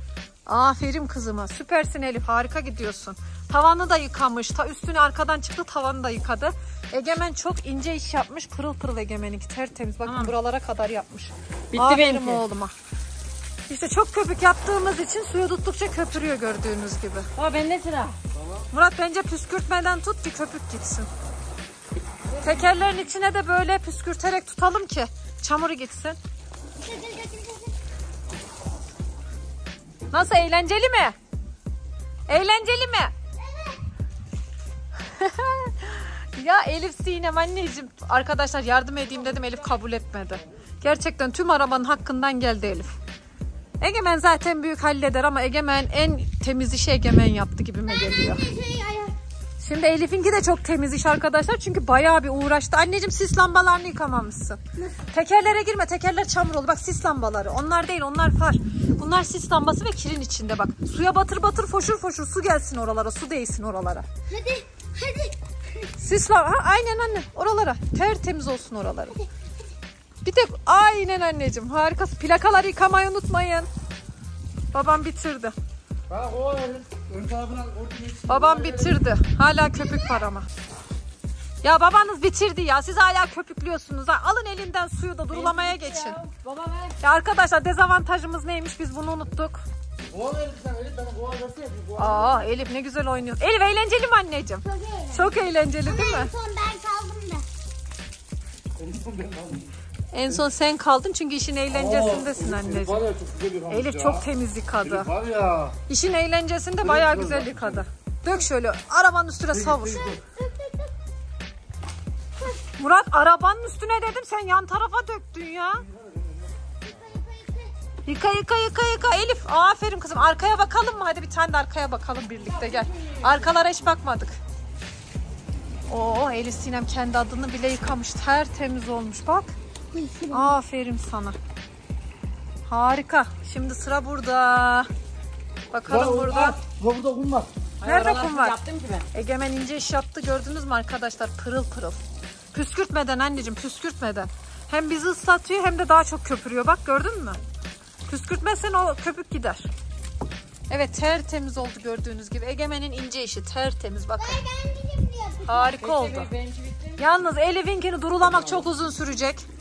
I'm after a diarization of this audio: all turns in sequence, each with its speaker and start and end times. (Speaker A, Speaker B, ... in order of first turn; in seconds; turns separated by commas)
Speaker A: 0.5-12.7, Speaker B: 10.0-10.3, Speaker B: 11.7-12.4, Speaker A: 13.7-17.3, Speaker B: 17.4-18.2, Speaker A: 18.7-21.1, Speaker A: 22.4-26.2, Speaker C: 26.8-27.8, Speaker A: 30.1-31.1, Speaker A: 32.3-33.1, Speaker C: 33.4-33.8, Speaker A: 35.0-42.9, Speaker A: 43.8-48.4, Speaker C: 47.9-49.1, Speaker A: 49.6-64.0, Speaker C: 54.8-55.0, Speaker C: 64.3-65.9, Speaker A: 66.0-69.2, Speaker A: 70.2-73.7, Speaker A: 74.7-75.5, Speaker D: 76.1-79.0, Speaker A: 78.3-80.5, Speaker A: 81.6-86.2, Speaker B: 85.3-87.0, Speaker A: 87.0-89.6, Speaker D: 90.1-92.4, Speaker A: 92.0-96.3, Speaker C: 94.6-97.4, Speaker D: 98.8-99.7, Speaker A: 100.1-103.1, Speaker D: 101.7-104.3, Speaker A: 103.7-105.1, Speaker D: 104.8-105.8, Speaker A: 105.9-110.1, Speaker D: 106.8-107.8, Speaker D: 109.5-110.2, Speaker C: 110.2-110.9, Speaker A: 112.6-115.8, Speaker D: 115.9-116.7, Speaker C: 116.8-117.7, Speaker A: 118.0-124.3, Speaker B: 122.5-123.5, Speaker A: 125.9-129.5, Speaker C: 129.9-130.5, Speaker A: 130.3-131.4, Speaker A: 132.7-134.9, Speaker A: 135.7-136.6, Speaker D: 135.8-137.5, Speaker B: 137.8-139.1, Speaker A: 137.8-138.6, Speaker A: 139.1-142.0, Speaker A: 142.5-147.4, Speaker A: 148.1-149.7, Speaker A: 150.7-154.4, Speaker C: 154.2-155.8, Speaker A: 155.4-156.3, Speaker B: 155.8-157.0, Speaker A: 157.0-159.4